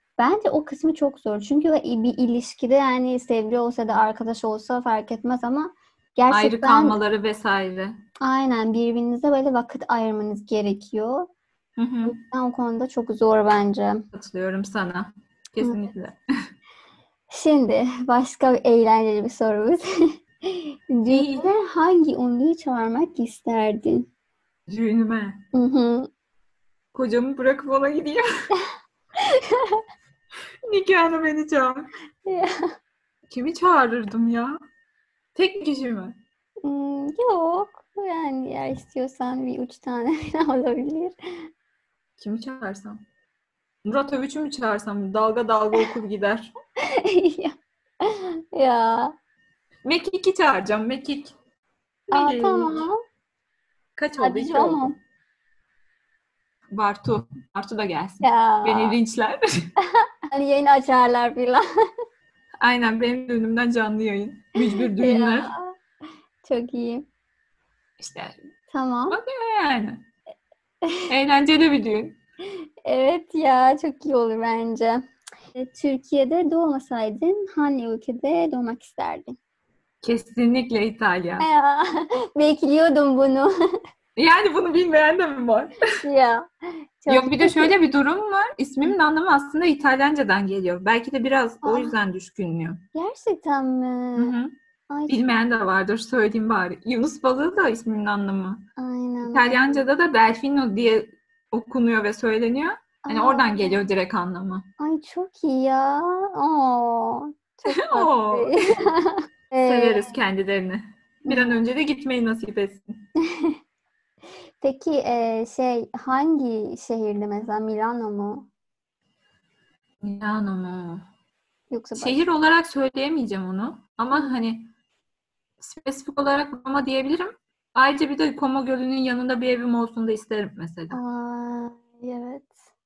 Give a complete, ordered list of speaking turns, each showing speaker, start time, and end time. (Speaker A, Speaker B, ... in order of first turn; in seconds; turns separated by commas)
Speaker A: 0.2-7.0, Speaker B: 6.3-8.0, Speaker A: 8.2-11.3, Speaker B: 11.8-12.1, Speaker A: 12.0-14.0, Speaker B: 14.1-16.2, Speaker A: 17.3-24.1, Speaker B: 21.1-21.5, Speaker B: 24.7-25.4, Speaker A: 25.5-26.1, Speaker B: 26.9-28.2, Speaker A: 29.2-29.8, Speaker B: 30.6-31.9, Speaker A: 32.2-32.5, Speaker B: 33.3-34.6, Speaker B: 35.3-36.2, Speaker A: 36.6-41.5, Speaker B: 42.2-43.0, Speaker B: 43.8-46.5, Speaker A: 46.8-49.1, Speaker B: 49.8-51.3, Speaker B: 52.1-52.8, Speaker A: 52.1-53.0, Speaker B: 54.0-54.9, Speaker A: 54.2-55.0, Speaker B: 56.7-59.7, Speaker A: 58.2-59.0, Speaker A: 60.3-61.6, Speaker B: 62.6-65.5, Speaker A: 64.7-65.8, Speaker A: 66.4-67.0, Speaker B: 68.0-68.4, Speaker A: 68.7-69.2, Speaker B: 69.1-70.0, Speaker B: 71.1-72.2, Speaker A: 72.8-79.4, Speaker B: 80.0-81.5, Speaker A: 81.4-83.5, Speaker B: 84.2-85.7, Speaker A: 86.0-86.5, Speaker A: 87.0-87.7, Speaker B: 87.1-92.8, Speaker A: 91.6-91.9, Speaker A: 92.9-94.3, Speaker B: 94.2-94.5, Speaker A: 94.9-95.2, Speaker B: 95.1-98.7, Speaker A: 98.8-99.8, Speaker B: 99.2-104.7, Speaker A: 103.0-103.8, Speaker A: 104.8-110.1, Speaker B: 107.7-108.6, Speaker B: 109.6-113.0, Speaker A: 111.2-111.6, Speaker A: 113.2-113.6, Speaker A: 114.6-118.5, Speaker B: 120.0-121.0, Speaker A: 121.7-122.2, Speaker B: 122.0-124.7, Speaker B: 125.6-131.0, Speaker A: 130.9-132.5